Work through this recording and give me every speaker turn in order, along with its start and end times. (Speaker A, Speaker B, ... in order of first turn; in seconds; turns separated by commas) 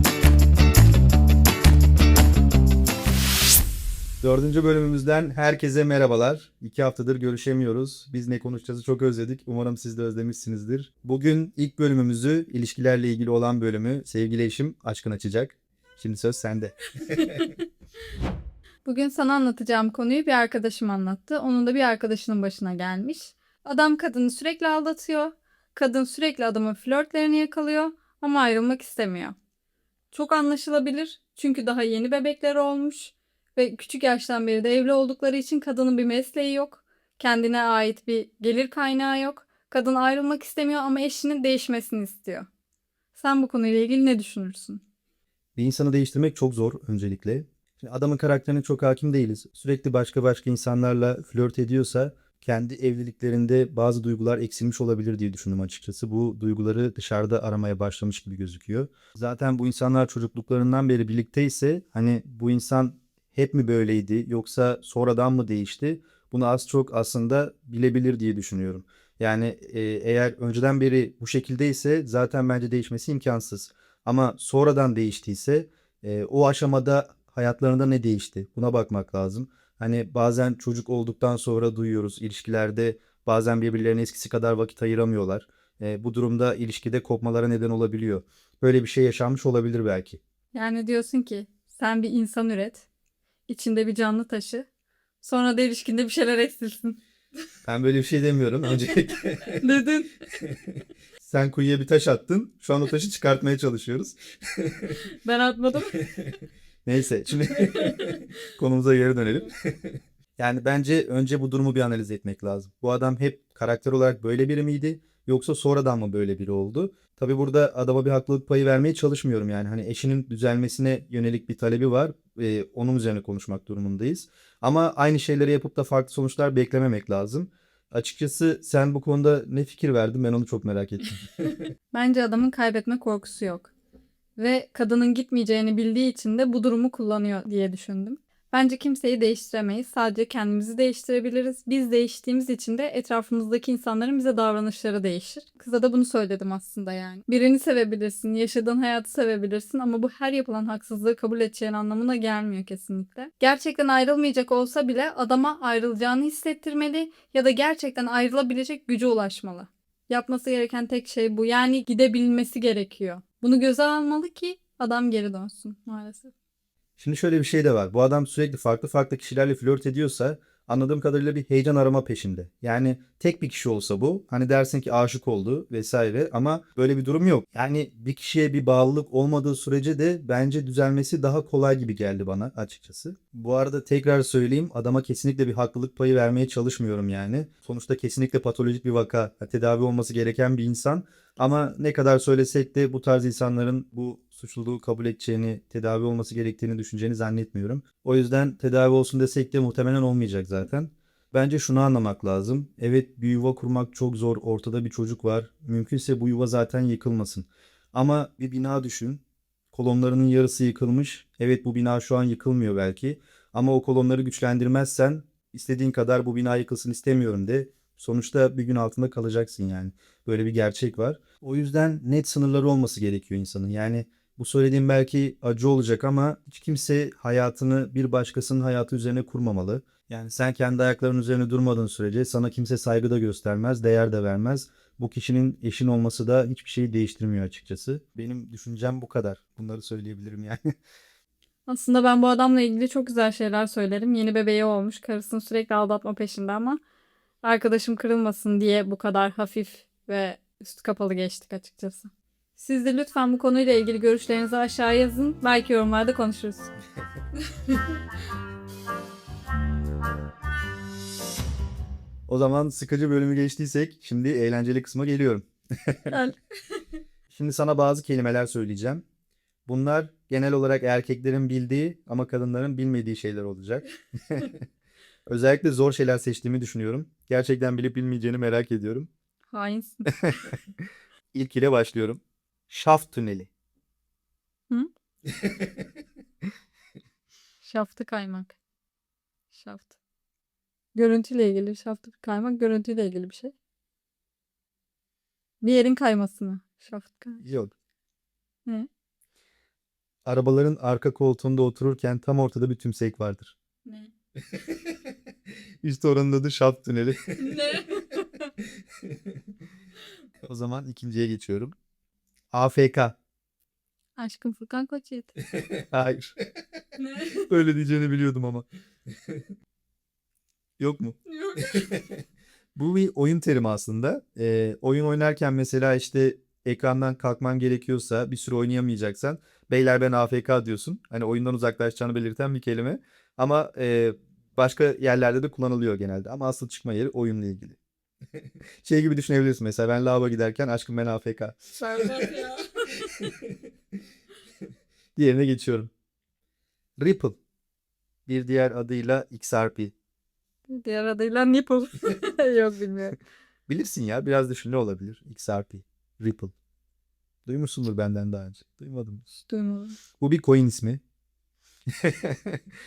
Speaker A: 4.2-16.8, Speaker B: 17.1-17.5, Speaker B: 18.8-29.4, Speaker B: 30.1-42.5, Speaker B: 43.1-44.8, Speaker A: 45.6-90.2, Speaker B: 90.5-92.9, Speaker B: 93.5-94.7, Speaker B: 95.2-97.0, Speaker A: 97.7-99.6, Speaker B: 99.6-100.1, Speaker A: 101.2-104.9, Speaker B: 105.1-106.0, Speaker A: 106.8-109.5, Speaker B: 107.5-108.2, Speaker A: 110.4-131.2, Speaker B: 131.9-133.7, Speaker B: 134.4-166.3, Speaker A: 167.0-209.2, Speaker A: 209.7-240.6, Speaker B: 241.7-246.8, Speaker B: 247.4-256.7, Speaker A: 262.3-266.1, Speaker B: 266.1-266.8, Speaker A: 267.3-269.0, Speaker A: 269.7-274.6, Speaker A: 275.3-279.1, Speaker B: 279.5-280.2, Speaker A: 280.2-280.6, Speaker A: 281.3-283.5, Speaker B: 287.6-288.6, Speaker B: 289.5-289.9, Speaker B: 290.9-293.5, Speaker B: 295.6-297.4, Speaker A: 297.4-297.7, Speaker A: 300.2-303.6, Speaker B: 303.9-304.1, Speaker A: 305.8-307.5, Speaker B: 307.4-308.5, Speaker A: 310.4-311.8, Speaker A: 312.5-313.2, Speaker B: 314.2-315.3, Speaker A: 315.6-316.3, Speaker B: 317.0-317.6, Speaker A: 317.5-318.7, Speaker A: 320.8-321.2, Speaker B: 321.3-321.9, Speaker A: 321.7-322.2, Speaker A: 322.8-337.8, Speaker A: 338.8-342.2, Speaker B: 341.8-343.3, Speaker A: 345.2-345.9, Speaker A: 347.0-347.4, Speaker A: 348.3-349.9, Speaker B: 350.7-353.2, Speaker A: 353.7-356.5, Speaker A: 357.5-359.2, Speaker B: 359.3-360.0, Speaker A: 360.2-361.0, Speaker A: 361.9-362.6